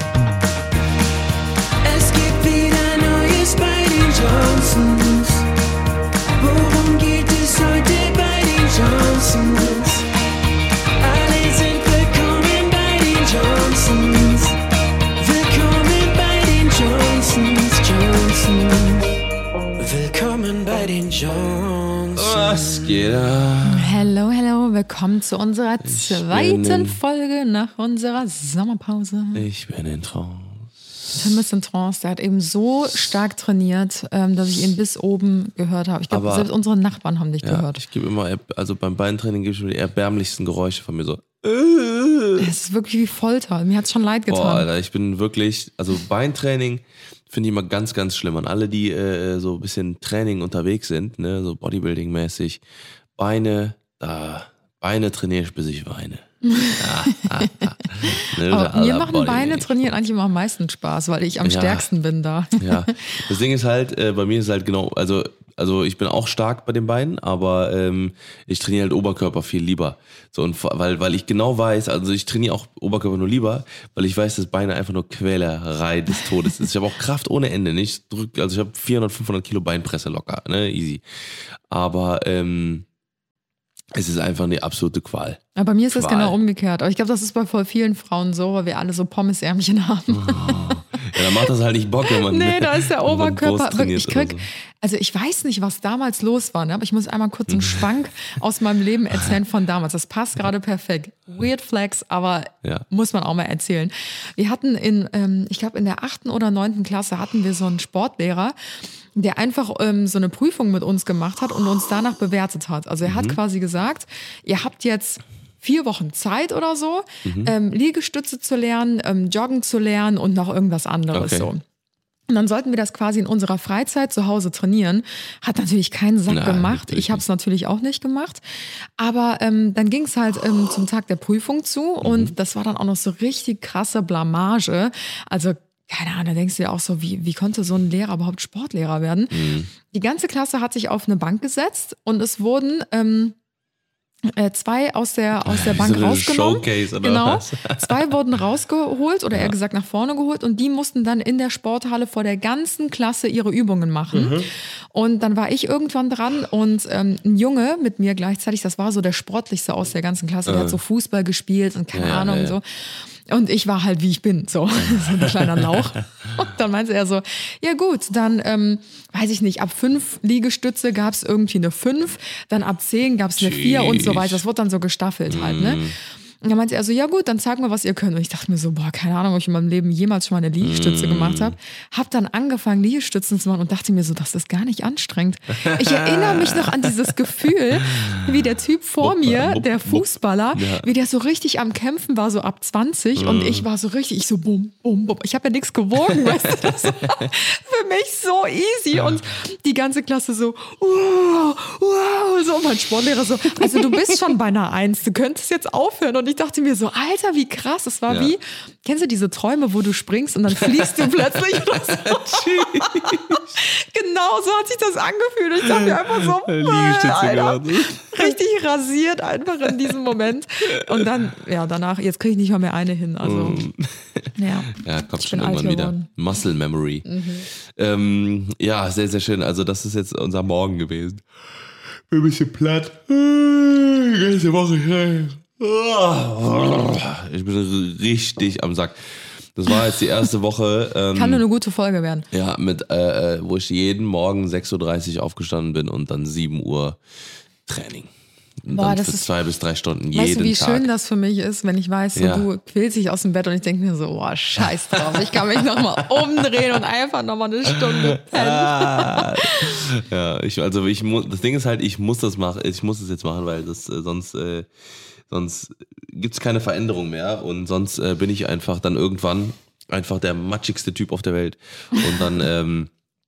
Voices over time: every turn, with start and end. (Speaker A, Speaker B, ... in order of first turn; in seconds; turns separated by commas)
Speaker A: 1.8-5.5, Speaker A: 6.4-10.1, Speaker A: 11.0-14.6, Speaker A: 15.2-19.1, Speaker A: 19.8-23.0, Speaker B: 22.1-24.0, Speaker C: 23.7-29.4, Speaker B: 25.8-27.0, Speaker B: 29.4-30.7, Speaker C: 31.2-37.8, Speaker B: 36.1-36.5, Speaker B: 37.4-42.5, Speaker C: 42.4-44.7, Speaker B: 44.3-52.6, Speaker B: 53.2-59.9, Speaker C: 56.5-63.2, Speaker B: 61.4-61.9, Speaker B: 62.6-82.9, Speaker B: 83.9-86.4, Speaker C: 85.6-91.2, Speaker B: 90.1-94.5, Speaker C: 92.1-108.6, Speaker B: 97.5-97.8, Speaker C: 109.2-121.6, Speaker B: 113.0-113.4, Speaker B: 117.2-117.5, Speaker B: 121.1-121.5, Speaker C: 122.3-128.4, Speaker B: 126.3-127.2, Speaker C: 129.0-143.3, Speaker B: 132.0-132.3, Speaker B: 139.3-139.7, Speaker C: 144.3-175.8, Speaker B: 145.4-148.0, Speaker B: 154.1-154.5, Speaker B: 160.5-160.8, Speaker B: 161.9-162.6, Speaker B: 164.9-165.8, Speaker B: 173.4-174.4, Speaker B: 175.3-175.9, Speaker C: 176.4-223.6, Speaker B: 180.6-181.6, Speaker B: 185.6-186.9, Speaker B: 187.9-188.2, Speaker B: 189.0-190.9, Speaker B: 193.2-193.7, Speaker B: 196.1-197.3, Speaker B: 208.1-208.3, Speaker B: 210.6-213.6, Speaker B: 215.6-218.4, Speaker B: 223.2-227.1, Speaker C: 224.4-226.1, Speaker C: 227.1-227.5, Speaker B: 227.7-231.2, Speaker B: 231.9-241.4, Speaker C: 241.2-242.2, Speaker B: 242.3-247.0, Speaker B: 247.7-248.1, Speaker B: 248.6-250.9, Speaker C: 248.7-249.3, Speaker C: 250.1-259.9, Speaker B: 252.2-252.5, Speaker B: 255.1-256.8, Speaker B: 257.8-264.7, Speaker B: 265.3-272.9